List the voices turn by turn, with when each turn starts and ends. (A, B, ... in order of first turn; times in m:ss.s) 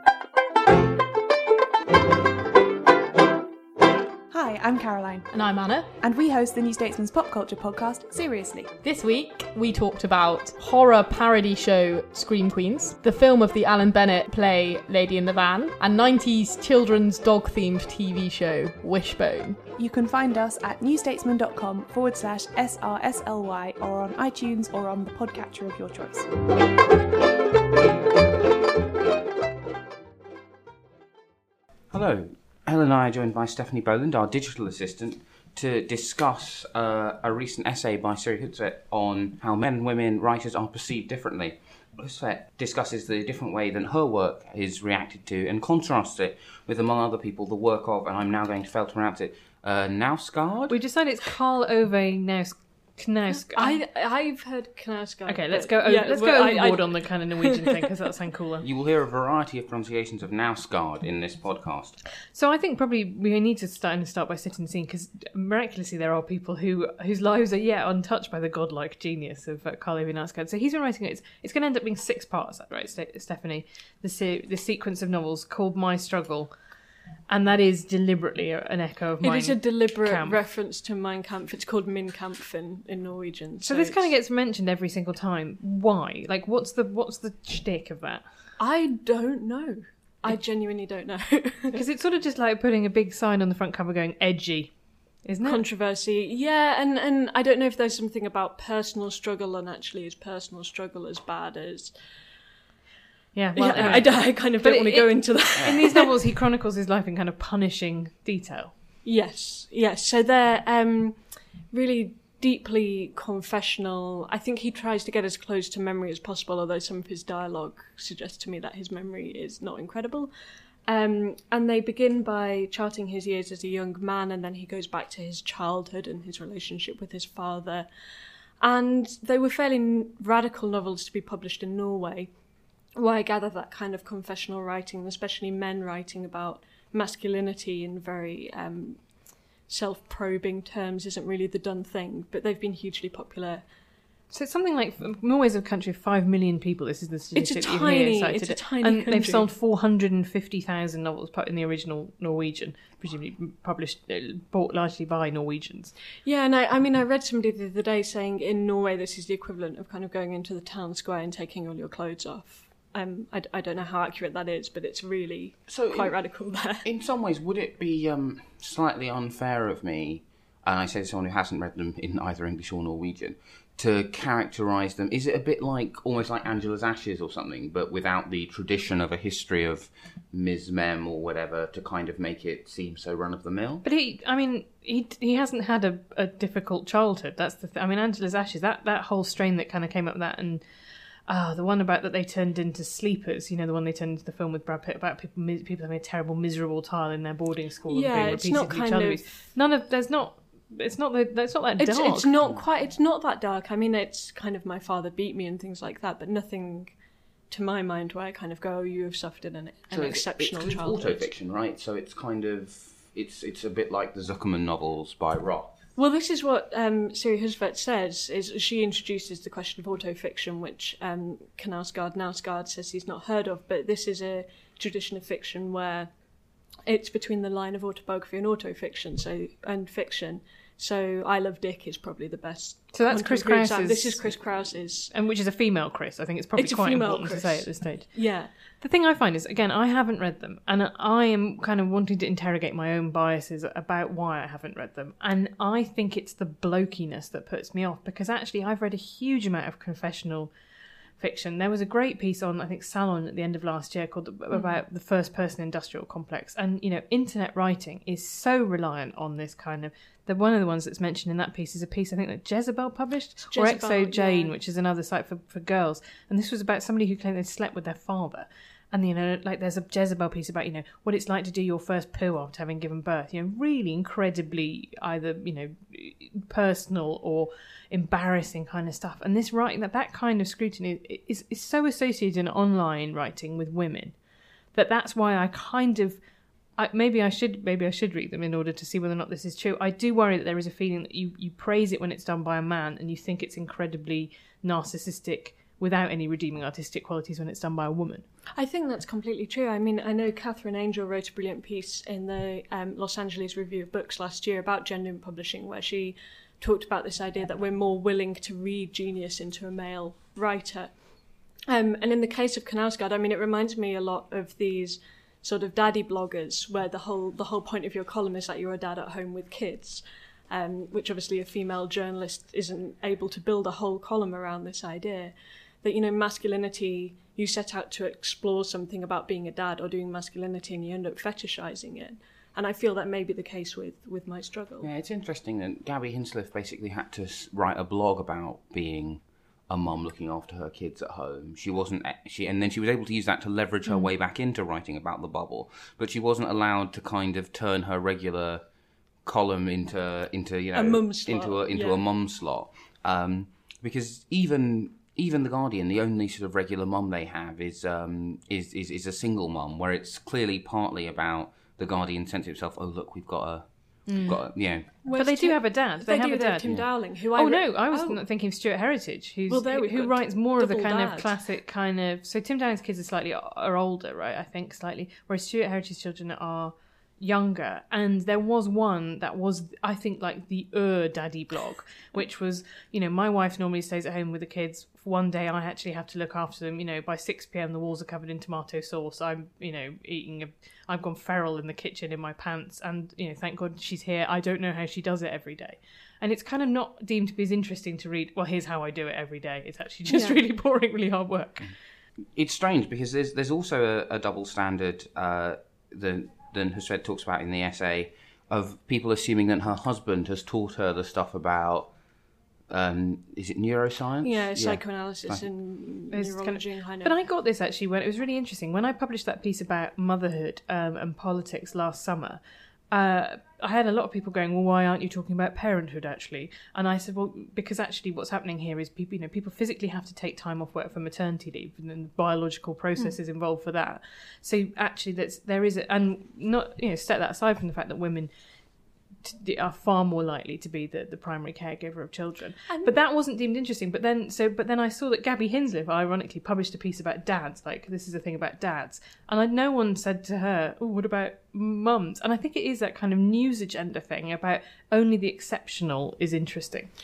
0:04.3-0:05.3 A
0:05.3-0:05.9 B
0:06.0-0:08.7 A
0:08.8-0:19.6 B
0:19.8-0:26.3 A
0:31.9-0:50.7 C
0:50.7-0:53.8 D
0:53.4-0:57.8 E
0:55.3-0:58.6 D
0:58.6-1:02.0 C
1:02.3-1:16.5 D
1:17.3-1:20.4 D
1:19.2-1:24.1 E
1:23.6-1:28.2 D
1:28.6-1:31.8 E
1:31.7-1:34.7 D
1:35.2-1:35.6 D
1:35.4-1:41.9 E
1:43.3-1:48.7 D
1:43.5-1:46.1 E
1:43.7-1:44.1 C
1:49.0-2:00.3 E
2:00.9-2:07.9 E
2:08.6-2:12.3 E
2:13.0-2:23.6 E
2:24.3-2:35.9 D
2:27.3-2:29.5 E
2:36.2-2:46.8 E
2:45.7-2:46.2 C
2:46.8-3:03.8 C
3:03.8-3:10.6 D
3:11.3-3:22.3 D
3:17.9-3:19.3 E
3:21.8-3:26.9 E
3:27.5-3:31.3 E
3:29.9-3:35.7 C
3:36.0-3:46.1 E
3:46.9-3:55.1 E
3:52.9-3:54.5 D
3:55.1-3:58.2 D
3:56.6-3:58.5 E
3:58.8-4:10.5 D
4:11.2-4:44.1 D
4:14.5-4:14.8 E
4:23.5-4:24.5 E
4:44.7-4:46.2 D
4:46.8-4:58.2 D
4:58.5-5:11.0 E
5:11.7-5:34.9 E
5:34.8-5:48.6 C
5:49.2-6:04.9 C
5:50.7-5:52.0 E
6:04.1-6:04.4 D
6:05.0-6:08.2 E
6:05.1-6:06.8 D
6:06.6-6:06.9 C
6:07.3-6:41.7 D
6:09.5-6:11.4 E
6:40.1-6:40.4 E
6:42.4-6:51.9 C
6:52.7-6:55.4 C
6:54.2-6:57.1 E
6:56.1-7:02.4 D
7:02.9-7:18.3 D
7:19.2-7:36.9 D